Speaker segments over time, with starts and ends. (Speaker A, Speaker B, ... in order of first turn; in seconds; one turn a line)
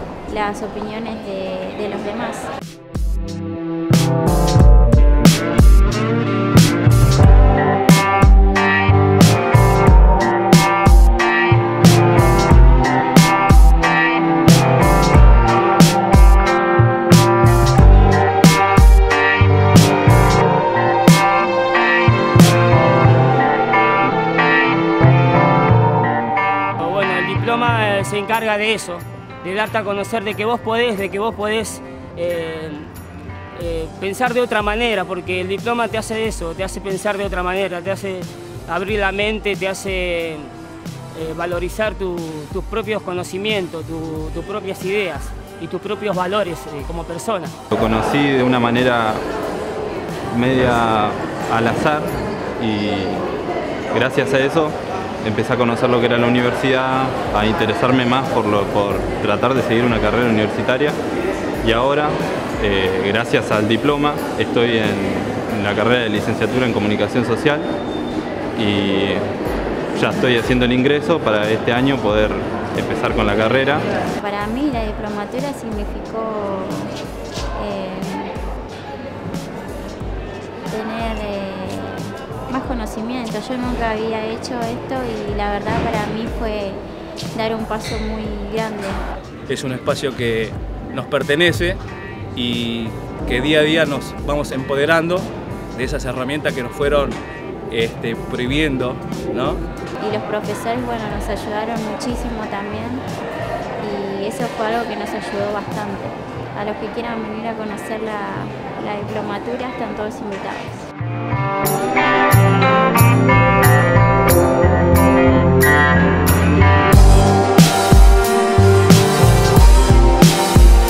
Speaker A: 0.2-2.5
Speaker B: 26.8-32.9
Speaker B: 33.5-40.5
Speaker B: 41.1-47.5
Speaker C: 47.7-49.2
Speaker C: 50.3-53.3
Speaker C: 53.9-61.0
Speaker C: 61.6-67.7
Speaker C: 68.5-69.2
Speaker C: 69.9-73.9
Speaker A: 74.2-76.9
Speaker A: 77.5-78.3
Speaker A: 80.7-86.8
Speaker A: 87.3-89.0
Speaker D: 89.5-91.8
Speaker D: 92.3-97.2
Speaker D: 97.7-99.6
Speaker A: 100.0-103.0
Speaker A: 103.8-110.9